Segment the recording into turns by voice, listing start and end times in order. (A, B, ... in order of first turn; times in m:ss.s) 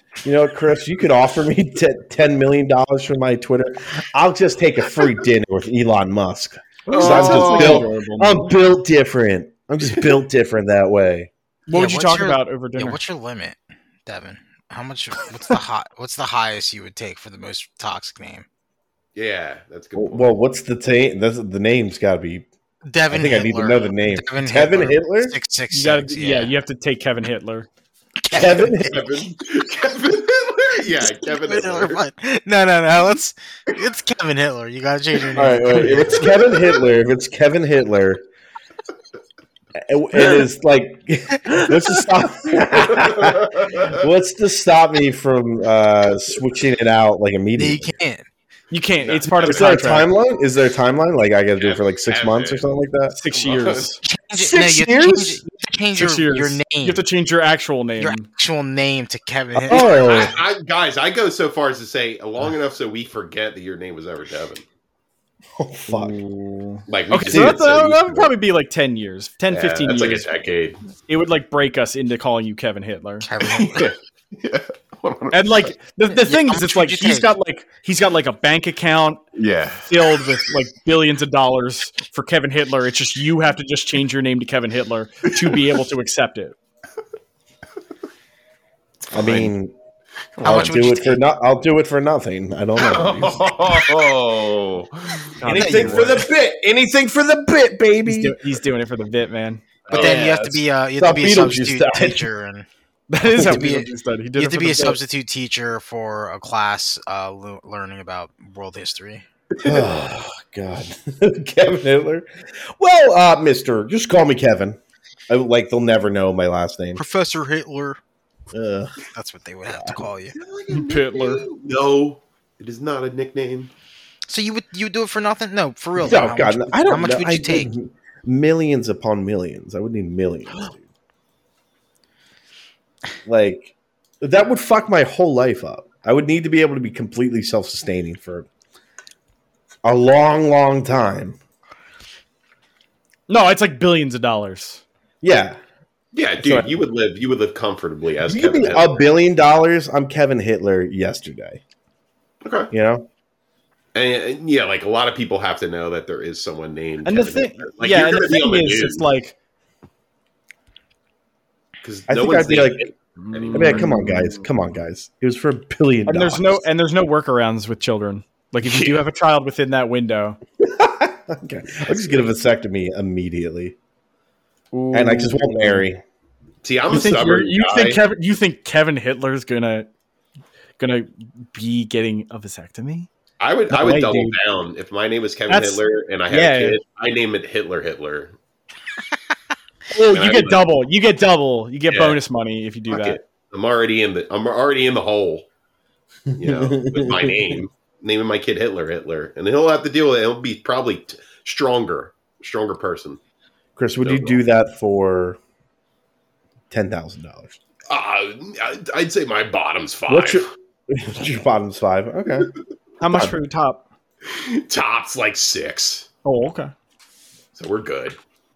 0:00.2-0:11.3 A
0:06.9-0:08.6 B
0:06.9-0:07.9 C
0:11.7-0:13.0 B
0:11.7-0:18.5 D
0:19.2-0:20.3 C
0:20.0-0:22.5 A
0:22.8-0:26.5 D
0:23.1-0:25.4 A
0:25.7-0:27.7 B
0:28.3-0:28.9 D
0:28.3-0:29.1 A
0:28.7-0:32.0 C
0:30.8-0:36.2 D
0:35.4-0:38.2 A
0:35.7-0:36.8 C
0:39.8-0:48.0 A
0:42.8-0:44.0 C
0:47.6-0:48.3 D
0:48.7-0:50.1 B
0:49.0-0:49.7 C
0:49.4-0:53.2 A
0:51.6-0:52.7 C
0:53.1-0:58.2 B
0:53.3-0:53.9 C
0:54.0-0:57.0 D
0:58.0-1:00.0 D
0:59.6-1:00.4 A
0:59.7-1:04.6 C
1:05.6-1:06.2 A
1:05.9-1:10.3 B
1:06.9-1:08.3 C
1:07.3-1:07.7 A
1:09.5-1:10.8 C
1:11.1-1:13.3 B
1:13.2-1:13.9 D
1:13.6-1:15.7 C
1:15.3-1:19.2 B
1:16.1-1:17.3 D
1:19.4-1:20.4 C
1:19.9-1:26.6 B
1:25.4-1:25.7 C
1:29.1-1:29.5 C
1:29.1-1:29.7 A
1:30.4-1:30.7 B
1:30.4-1:31.2 D
1:30.4-1:33.6 A
1:32.8-1:36.2 C
1:35.4-1:36.3 B
1:35.5-1:38.4 A
1:35.5-1:36.0 D
1:38.1-1:40.6 B
1:39.9-1:40.3 C
1:39.9-1:42.7 D
1:41.0-1:42.2 A
1:43.1-1:45.0 B
1:43.3-1:43.6 A
1:43.3-1:49.2 D
1:49.6-1:49.9 C
1:49.6-1:52.3 A
1:52.8-1:57.0 A
1:57.0-1:58.0 D
1:58.5-1:58.9 A
1:59.1-2:00.4 D
1:59.7-2:00.0 A
2:00.3-2:03.7 C
2:00.7-2:01.4 B
2:04.3-2:07.7 D
2:06.0-2:10.8 A
2:13.3-2:18.5 A
2:19.8-2:21.4 A
2:23.3-2:24.8 B
2:25.2-2:25.6 A
2:26.1-2:29.0 C
2:26.4-2:26.7 A
2:28.3-2:31.6 A
2:32.4-2:32.7 C
2:32.7-2:33.1 A
2:33.9-2:39.1 C
2:37.0-2:39.4 B
2:41.8-2:44.0 C
2:42.1-2:42.9 A
2:43.2-2:44.5 B
2:43.5-2:46.6 A
2:46.1-2:50.4 B
2:48.6-2:49.0 C
2:50.6-2:53.8 A
2:54.7-2:55.8 B
2:54.9-2:56.0 A
2:56.6-2:58.0 C
2:56.9-2:59.9 B
3:00.8-3:03.1 B
3:03.4-3:08.4 C
3:03.7-3:04.4 B
3:05.5-3:06.8 B
3:09.9-3:13.2 B
3:10.0-3:10.7 C
3:11.9-3:12.2 C
3:12.9-3:15.5 C
3:16.3-3:17.6 A
3:16.4-3:23.2 C
3:23.8-3:25.4 A
3:24.0-3:24.4 C
3:26.7-3:27.6 A
3:27.9-3:30.4 C
3:30.1-3:32.5 A
3:33.0-3:33.8 B
3:33.1-3:33.4 A
3:34.3-3:36.1 C
3:36.2-3:36.7 B
3:37.6-3:38.2 C